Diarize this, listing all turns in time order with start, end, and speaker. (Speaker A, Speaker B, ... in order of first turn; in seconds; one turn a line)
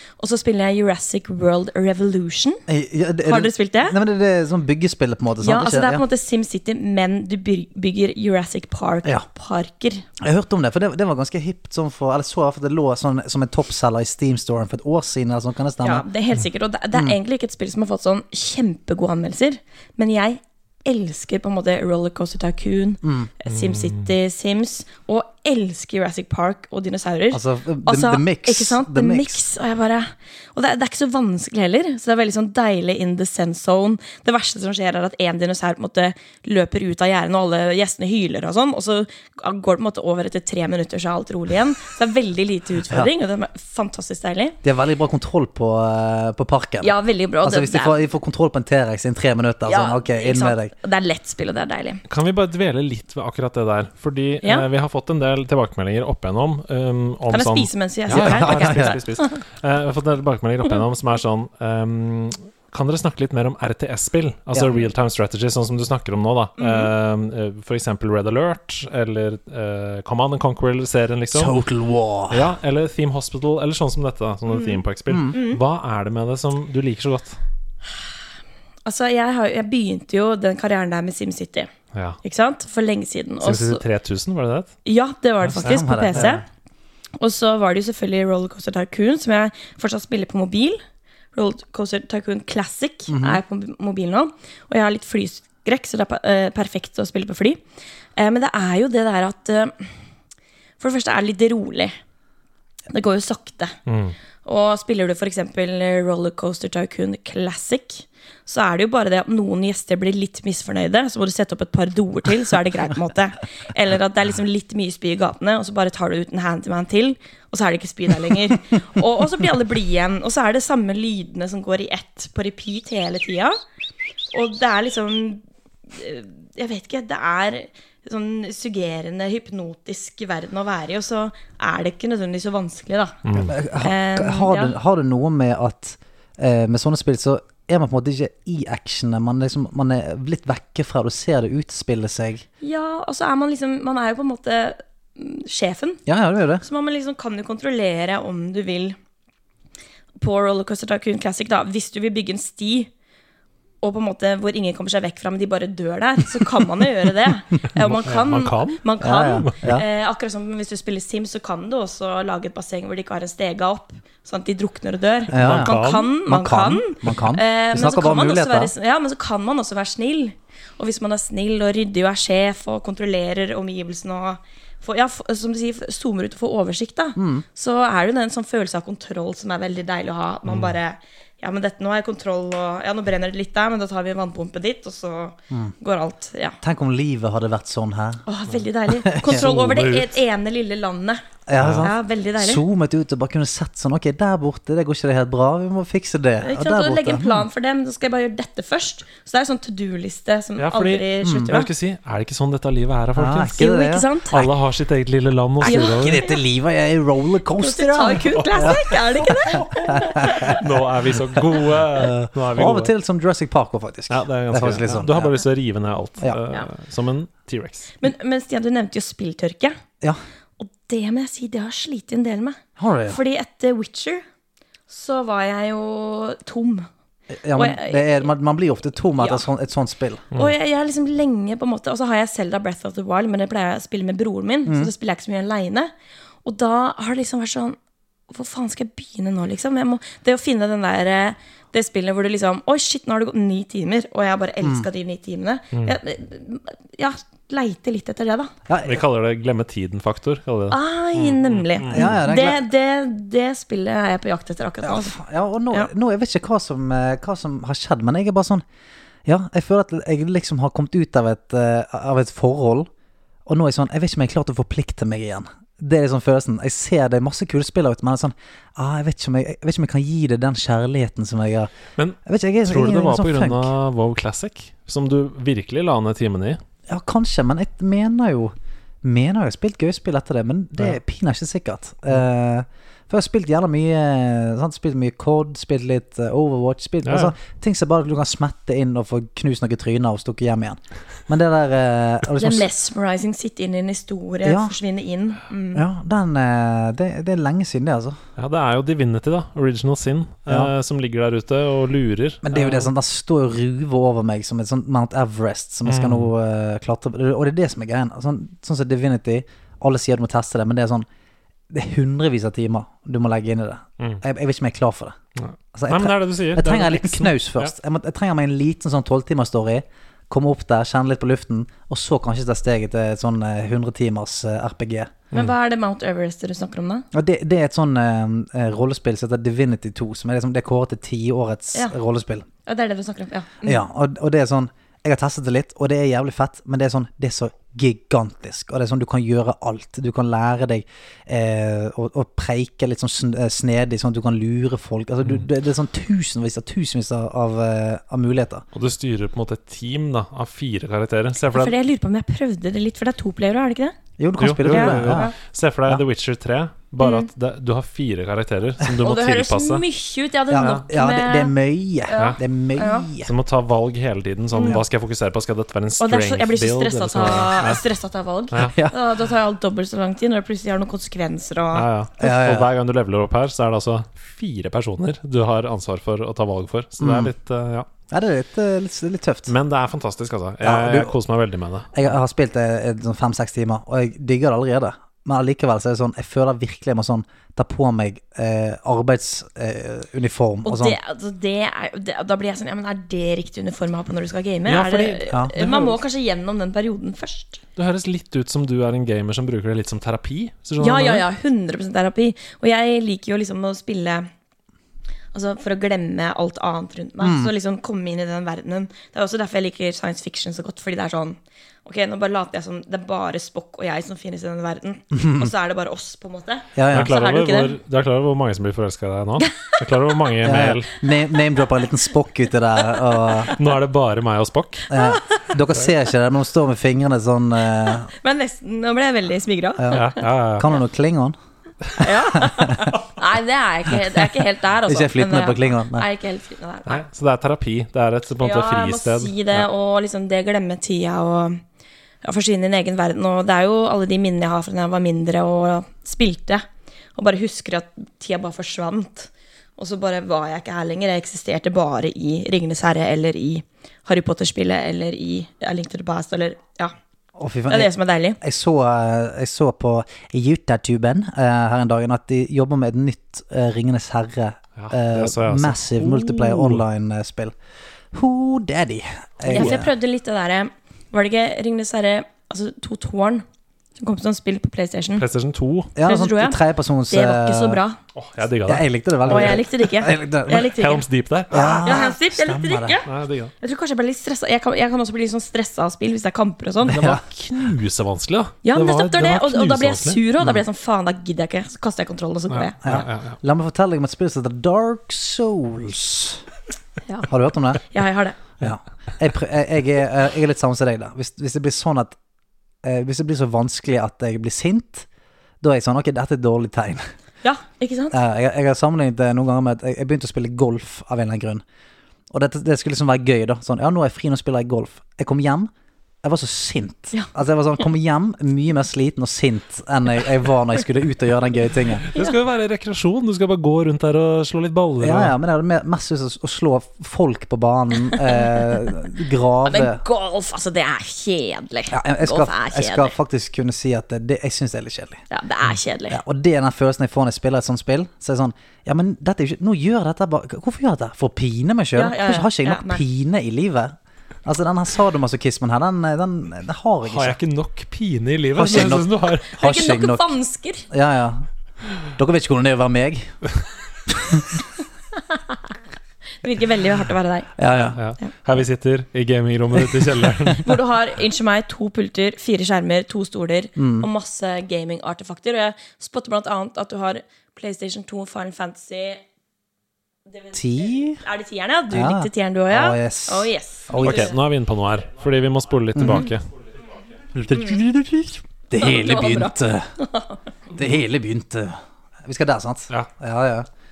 Speaker A: 0.2-2.6
Speaker B: 2.7-6.0
Speaker A: 3.2-4.0
Speaker A: 5.4-10.1
Speaker B: 10.2-16.1
Speaker A: 15.8-44.6
Speaker B: 23.0-23.3
Speaker C: 23.5-24.1
Speaker B: 27.3-29.4
Speaker B: 44.6-50.7
Speaker A: 46.8-48.0
Speaker A: 49.6-52.0
Speaker C: 52.1-71.5
Speaker A: 57.3-59.3
Speaker B: 58.1-59.0
Speaker A: 66.6-66.9
Speaker B: 71.3-72.5
Speaker C: 72.3-77.4
Speaker A: 74.5-74.8
Speaker B: 75.1-75.3
Speaker A: 75.3-75.6
Speaker A: 78.8-81.7
Speaker C: 81.9-82.2
Speaker A: 82.2-83.8
Speaker C: 83.4-84.7
Speaker A: 84.8-86.4
Speaker C: 85.4-86.3
Speaker B: 85.6-86.4
Speaker A: 87.2-90.8
Speaker A: 91.3-97.6
Speaker B: 93.1-93.4
Speaker A: 98.2-99.9
Speaker A: 100.8-101.9
Speaker A: 102.9-103.7
Speaker C: 103.9-104.2
Speaker A: 104.4-123.6
Speaker A: 124.3-134.8
Speaker C: 133.3-133.5
Speaker B: 133.5-142.4
Speaker A: 142.6-146.0
Speaker B: 146.1-146.6
Speaker A: 146.6-149.0
Speaker A: 150.2-152.9
Speaker A: 153.8-186.6
Speaker C: 157.9-158.8
Speaker B: 159.0-159.8
Speaker B: 165.3-168.7
Speaker C: 165.3-166.1
Speaker B: 177.2-177.4
Speaker C: 180.5-180.7
Speaker B: 186.6-188.2
Speaker A: 188.3-191.2
Speaker B: 188.9-190.1
Speaker B: 191.5-197.5
Speaker C: 191.6-191.9
Speaker A: 191.8-192.6
Speaker A: 196.4-201.7
Speaker C: 200.6-203.6
Speaker B: 201.2-201.5
Speaker B: 203.2-204.5
Speaker A: 203.6-204.4
Speaker C: 204.3-206.2
Speaker B: 205.6-208.8
Speaker A: 205.6-206.4
Speaker A: 207.6-210.6
Speaker C: 208.3-208.8
Speaker C: 209.5-212.9
Speaker B: 209.8-210.6
Speaker B: 211.4-215.3
Speaker C: 214.1-217.9
Speaker A: 218.0-219.8
Speaker A: 220.6-224.2
Speaker B: 222.8-223.2
Speaker A: 224.9-226.9
Speaker B: 227.3-230.3
Speaker A: 227.6-228.3
Speaker A: 229.2-229.5
Speaker A: 230.3-235.9
Speaker B: 234.7-234.9
Speaker A: 236.4-237.8
Speaker A: 238.3-248.5
Speaker B: 244.6-244.9
Speaker B: 248.7-249.0
Speaker C: 248.8-252.2
Speaker A: 250.7-255.2
Speaker B: 251.9-252.6
Speaker B: 254.8-258.6
Speaker B: 259.2-262.9
Speaker B: 263.5-271.7
Speaker C: 272.0-276.6
Speaker B: 272.2-273.7
Speaker B: 276.9-292.7
Speaker C: 287.0-287.3
Speaker A: 292.4-295.8
Speaker B: 294.4-294.8
Speaker B: 295.7-298.2
Speaker C: 298.4-302.9
Speaker B: 302.4-311.1
Speaker C: 305.9-306.3
Speaker B: 311.7-315.2
Speaker C: 315.4-317.7
Speaker B: 315.7-325.1
Speaker A: 325.3-327.1
Speaker B: 327.1-332.5
Speaker A: 332.7-333.9
Speaker B: 333.6-348.6
Speaker C: 348.7-351.7
Speaker A: 351.5-353.9
Speaker B: 354.2-355.3
Speaker C: 354.4-359.8
Speaker A: 354.6-355.3
Speaker A: 357.0-357.3
Speaker A: 359.0-361.5
Speaker B: 360.5-363.3
Speaker C: 360.6-360.8
Speaker A: 362.1-363.1
Speaker C: 363.2-367.8
Speaker A: 364.5-364.8
Speaker A: 366.0-371.9
Speaker C: 371.7-377.9
Speaker B: 372.2-372.7
Speaker B: 377.0-377.3
Speaker B: 378.1-379.5
Speaker C: 379.5-382.0
Speaker B: 380.6-381.1
Speaker B: 381.9-391.0
Speaker A: 390.6-397.6
Speaker C: 394.7-396.0
Speaker C: 397.8-401.2
Speaker A: 400.8-404.3
Speaker A: 405.3-417.8
Speaker B: 407.2-407.5
Speaker B: 415.1-415.5
Speaker B: 416.8-417.1
Speaker C: 416.9-420.9
Speaker A: 419.4-419.8
Speaker B: 420.4-423.5
Speaker C: 423.5-424.9
Speaker B: 424.9-428.1
Speaker A: 424.9-425.4
Speaker A: 428.1-430.2
Speaker C: 429.9-430.7
Speaker B: 430.6-431.4
Speaker A: 432.0-437.0
Speaker B: 432.4-432.8
Speaker B: 434.9-436.1
Speaker C: 436.9-439.7
Speaker A: 438.4-441.6
Speaker A: 442.2-446.6
Speaker A: 447.1-456.9
Speaker B: 457.4-467.6
Speaker A: 457.7-458.4
Speaker C: 464.8-466.8
Speaker B: 468.1-469.9
Speaker C: 469.5-469.8
Speaker A: 469.5-473.4
Speaker A: 474.0-475.2
Speaker C: 475.2-475.9
Speaker B: 476.0-477.8
Speaker A: 476.1-478.0
Speaker C: 478.1-479.6
Speaker B: 478.7-480.7
Speaker A: 479.3-481.0
Speaker C: 480.8-481.9
Speaker B: 481.5-483.0
Speaker A: 481.9-483.1
Speaker C: 483.1-483.5
Speaker A: 483.6-487.0
Speaker B: 486.9-487.2
Speaker C: 486.9-490.2
Speaker A: 488.6-492.8
Speaker C: 492.5-493.4
Speaker B: 492.8-496.4
Speaker B: 497.3-497.8
Speaker A: 497.8-498.4
Speaker B: 498.6-502.2
Speaker B: 502.8-505.1
Speaker B: 505.6-507.1
Speaker A: 507.4-508.2
Speaker B: 508.1-511.6
Speaker B: 512.3-515.7
Speaker B: 516.2-522.1
Speaker C: 522.1-525.3
Speaker B: 525.0-530.0
Speaker A: 528.1-529.0
Speaker A: 529.6-533.1
Speaker B: 531.9-535.2
Speaker A: 535.3-536.2
Speaker B: 536.1-547.4
Speaker A: 542.0-543.0
Speaker C: 547.1-549.6
Speaker B: 548.6-550.3
Speaker A: 549.6-550.9
Speaker B: 550.9-551.5
Speaker B: 552.1-553.3
Speaker B: 554.1-554.6
Speaker A: 555.3-555.6
Speaker A: 556.4-557.5
Speaker B: 557.6-558.0
Speaker C: 558.0-560.7
Speaker A: 560.6-569.2
Speaker B: 563.8-564.1
Speaker A: 570.3-574.4
Speaker B: 570.5-571.2
Speaker B: 571.9-574.3
Speaker C: 574.0-576.5
Speaker B: 576.0-576.3
Speaker B: 577.3-579.9
Speaker A: 577.5-577.8
Speaker A: 578.8-580.4
Speaker B: 580.8-583.7